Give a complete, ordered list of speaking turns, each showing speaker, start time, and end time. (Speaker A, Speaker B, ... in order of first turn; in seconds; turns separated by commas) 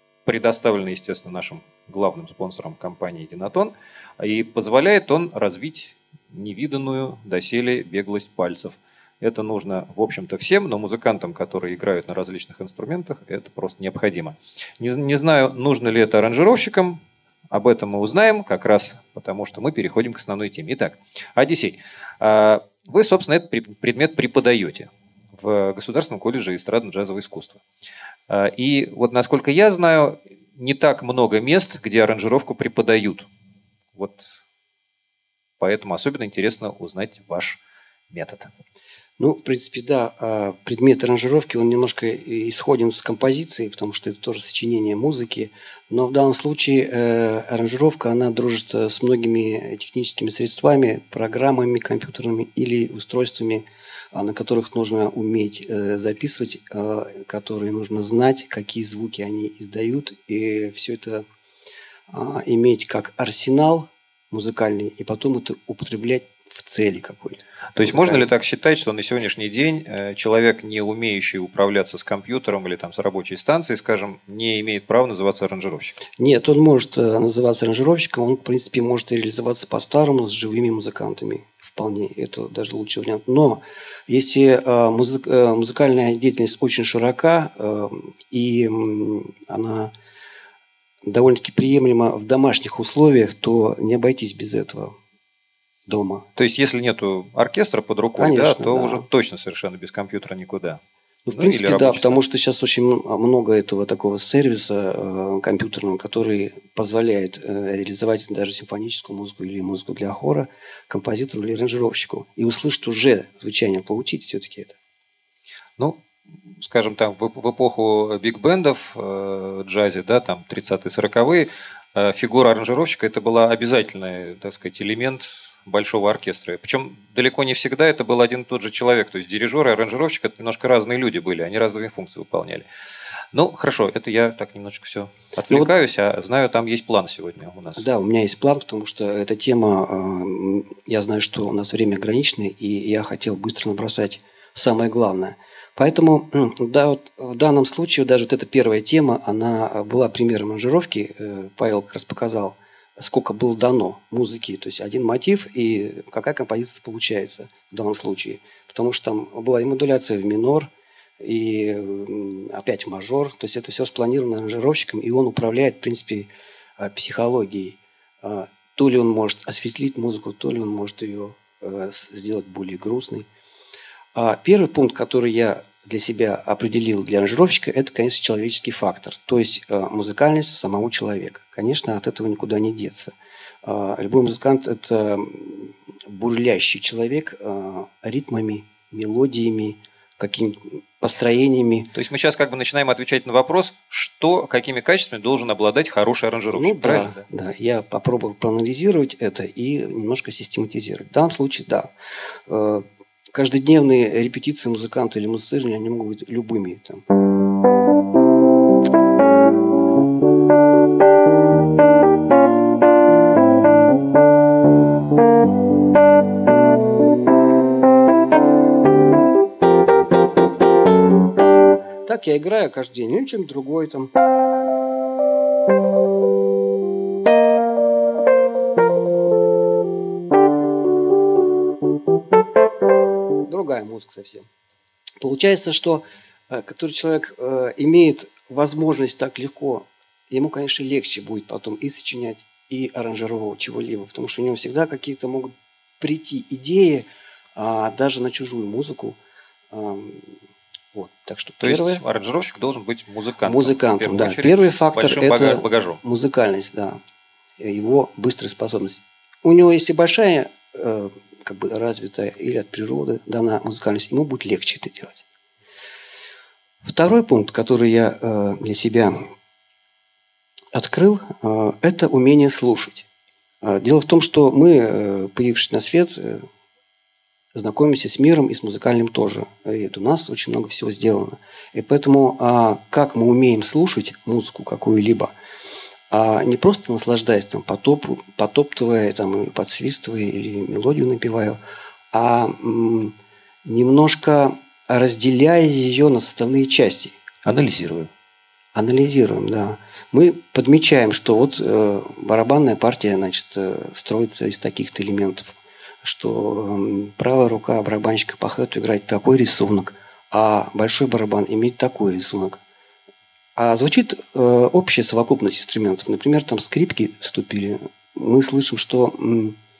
Speaker A: 0.2-17.0, Speaker A: 17.5-27.6, Speaker A: 28.3-33.3, Speaker A: 33.9-34.3, Speaker A: 35.6-38.5, Speaker B: 39.2-61.2, Speaker B: 62.1-68.3, Speaker A: 67.7-76.0, Speaker B: 76.2-89.9, Speaker B: 91.0-94.9, Speaker B: 95.9-96.2, Speaker A: 96.3-100.8, Speaker B: 98.2-99.1, Speaker B: 101.2-114.8, Speaker A: 101.3-102.2, Speaker A: 116.6-132.7, Speaker A: 133.3-137.8, Speaker B: 137.8-173.3, Speaker B: 174.1-183.1, Speaker B: 183.6-191.9, Speaker A: 191.9-197.2, Speaker B: 196.5-201.9, Speaker B: 202.5-207.0, Speaker B: 222.0-224.1, Speaker B: 233.4-234.5, Speaker B: 235.2-249.2, Speaker B: 249.7-250.4, Speaker B: 250.9-252.0, Speaker A: 251.6-256.0, Speaker B: 253.4-257.0, Speaker B: 257.6-265.2, Speaker B: 266.8-269.2, Speaker B: 270.7-273.1, Speaker B: 273.6-276.4, Speaker B: 277.5-285.3, Speaker B: 286.1-291.6, Speaker B: 292.1-297.2, Speaker A: 297.4-298.1, Speaker B: 298.7-312.6, Speaker B: 313.6-319.6